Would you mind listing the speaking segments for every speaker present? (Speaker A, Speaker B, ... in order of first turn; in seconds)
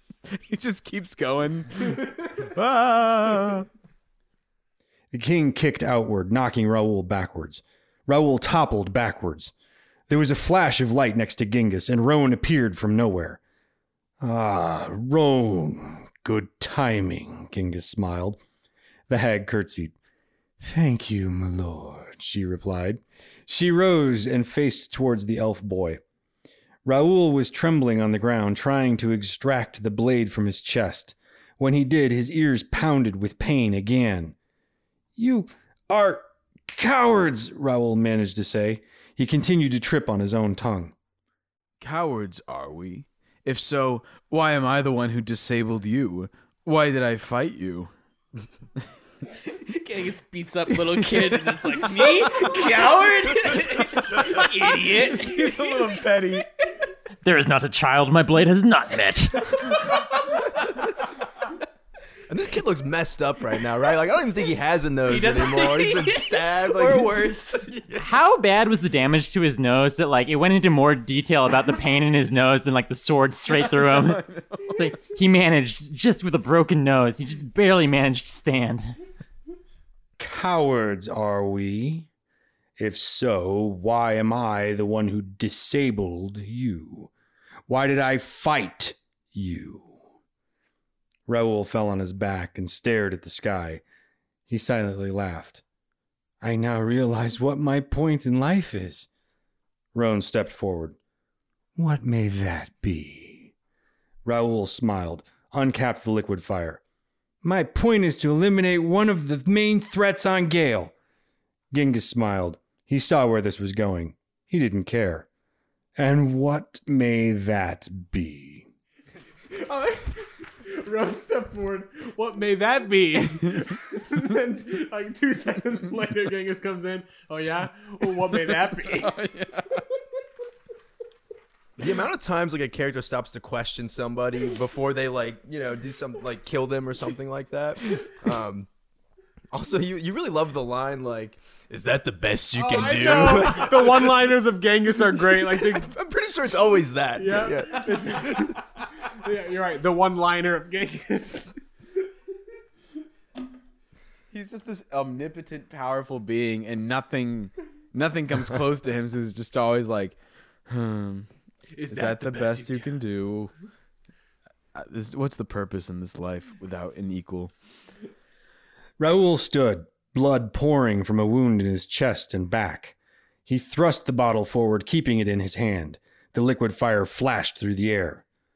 Speaker A: 0.3-3.7, 41.8-47.9, 51.0-52.7, 53.5-56.5, 73.9-74.8, 129.1-129.7, 154.3-160.2, 160.7-161.3, 161.9-163.5, 164.7-167.5
Speaker B: 5.1-9.5, 10.1-13.4, 14.2-18.4, 19.1-19.9, 20.6-26.0, 26.8-34.4, 35.1-40.9, 80.2-82.1, 82.8-87.1, 87.7-90.0, 91.3-93.8, 94.5-95.6, 96.4-99.1, 99.9-101.0, 101.8-103.5, 104.2-106.8, 107.4-110.9, 111.7-115.3, 116.0-118.7, 169.0-178.2
Speaker C: 49.5-56.0, 65.0-67.7
Speaker D: 57.2-60.0, 68.0-79.0
Speaker E: 62.3-68.0, 131.8-138.7, 139.5-144.2, 145.4-148.6
Speaker F: 119.5-129.3, 142.6-145.9, 147.2-151.6, 161.7-163.0